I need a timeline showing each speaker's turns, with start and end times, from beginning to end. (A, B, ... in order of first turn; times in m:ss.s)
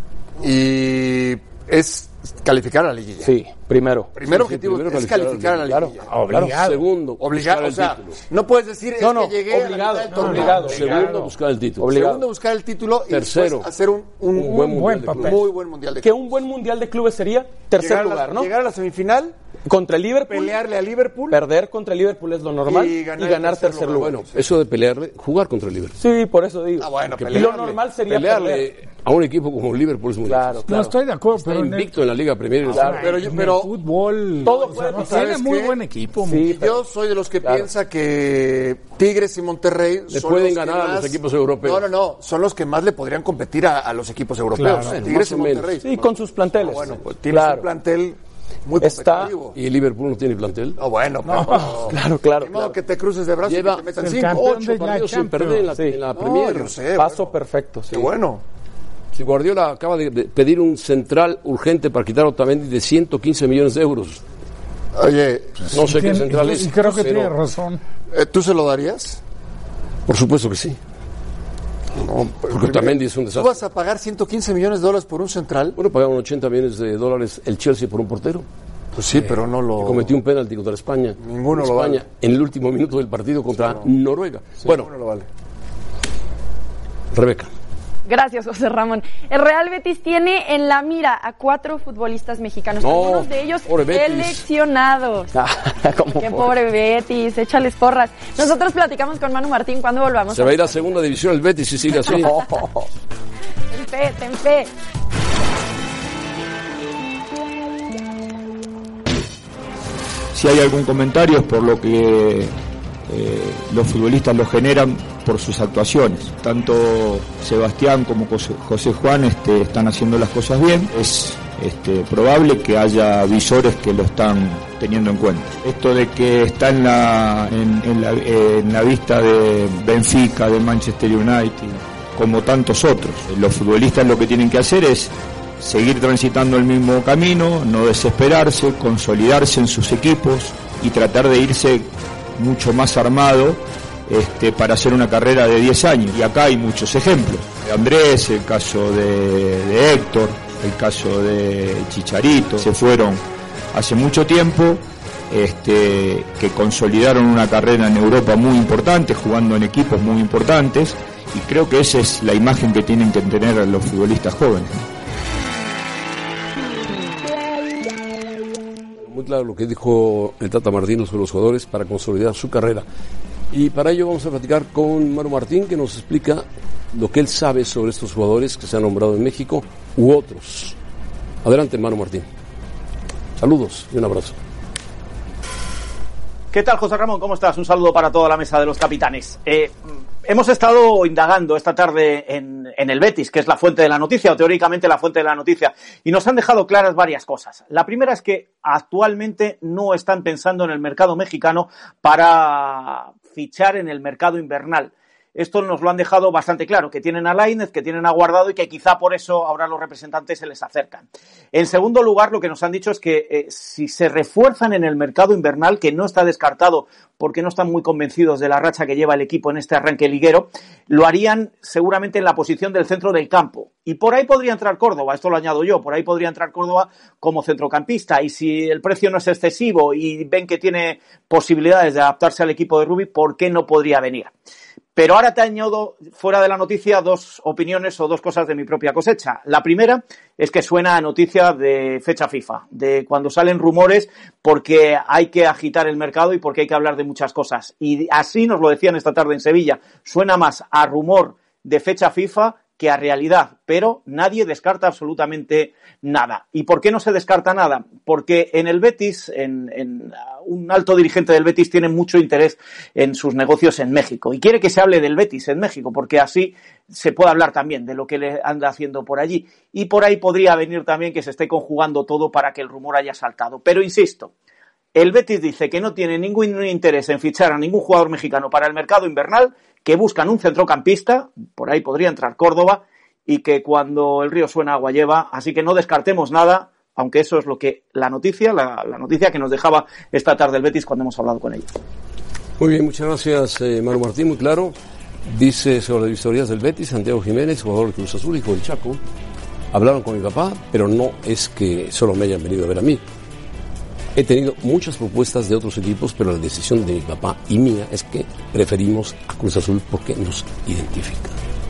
0:00.4-0:03.3 A
0:03.2-0:04.1 B
0:04.2-0:06.1 A
0:04.2-0:08.2 C
0:05.7-0:05.9 B
0:06.1-0:06.8 D
0:07.2-0:11.2 A
0:09.0-0:10.9 B
0:10.2-0:11.3 D
0:10.4-0:12.0 C
0:11.8-0:12.2 B
0:11.9-0:16.2 A
0:13.1-0:13.7 C
0:14.3-0:15.4 C
0:14.4-0:15.4 D
0:16.0-0:18.5 B
0:17.8-0:19.3 A
0:19.7-0:20.6 B
0:20.3-0:21.4 A
0:21.3-0:24.1 B
0:22.6-0:24.3 A
0:23.9-0:26.0 C
0:26.0-0:28.7 B
0:26.8-0:27.8 A
0:27.2-0:27.5 C
0:28.0-0:30.6 C
0:30.2-0:30.9 B
0:30.7-0:31.9 D
0:31.3-0:33.0 C
0:32.7-0:33.1 B
0:32.7-0:36.5 D
0:32.9-0:33.8 A
0:34.4-0:35.4 B
0:34.5-0:35.8 A
0:36.2-0:36.8 B
0:36.4-0:45.9 A
0:37.4-0:37.7 B
0:40.1-0:41.9 C
0:44.6-0:45.0 D
0:44.6-0:46.1 C
0:45.8-0:47.7 B
0:46.6-0:49.6 A
0:48.8-0:49.4 B
0:49.5-0:50.8 C
0:50.8-0:54.6 A
0:51.3-0:51.7 D
0:51.5-0:52.8 B
0:53.4-0:56.8 C
0:54.0-0:55.7 D
0:55.7-0:56.0 B
0:56.1-0:57.3 A
0:56.9-0:58.1 B
0:57.9-0:58.4 A
0:59.1-1:04.2 C
1:04.9-1:05.7 A
1:05.7-1:07.8 D
1:05.7-1:07.3 C
1:08.1-1:09.2 A
1:10.0-1:10.8 C
1:12.0-1:15.8 A
1:12.4-1:13.6 C
1:15.8-1:18.5 C
1:18.9-1:20.1 A
1:19.8-1:24.9 C
1:21.2-1:22.0 A
1:24.6-1:25.3 A
1:27.1-1:27.5 C
1:28.0-1:35.4 E
1:32.8-1:34.4 C
1:35.3-1:36.5 B
1:36.1-1:40.8 E
1:40.3-1:42.4 C
1:42.0-1:42.9 B
1:43.7-1:44.7 E
1:50.3-1:52.5 F
1:53.1-2:44.8 F
2:49.0-2:52.8 C
2:53.5-3:00.8 C
3:01.4-3:02.3 C
3:03.4-3:04.4 C
3:06.5-3:09.7 G
3:10.2-3:54.3 G
3:55.0-4:34.3 G
4:34.9-4:51.7 G
4:52.6-4:59.0 C
4:59.7-5:03.0 C
5:04.1-5:11.4 C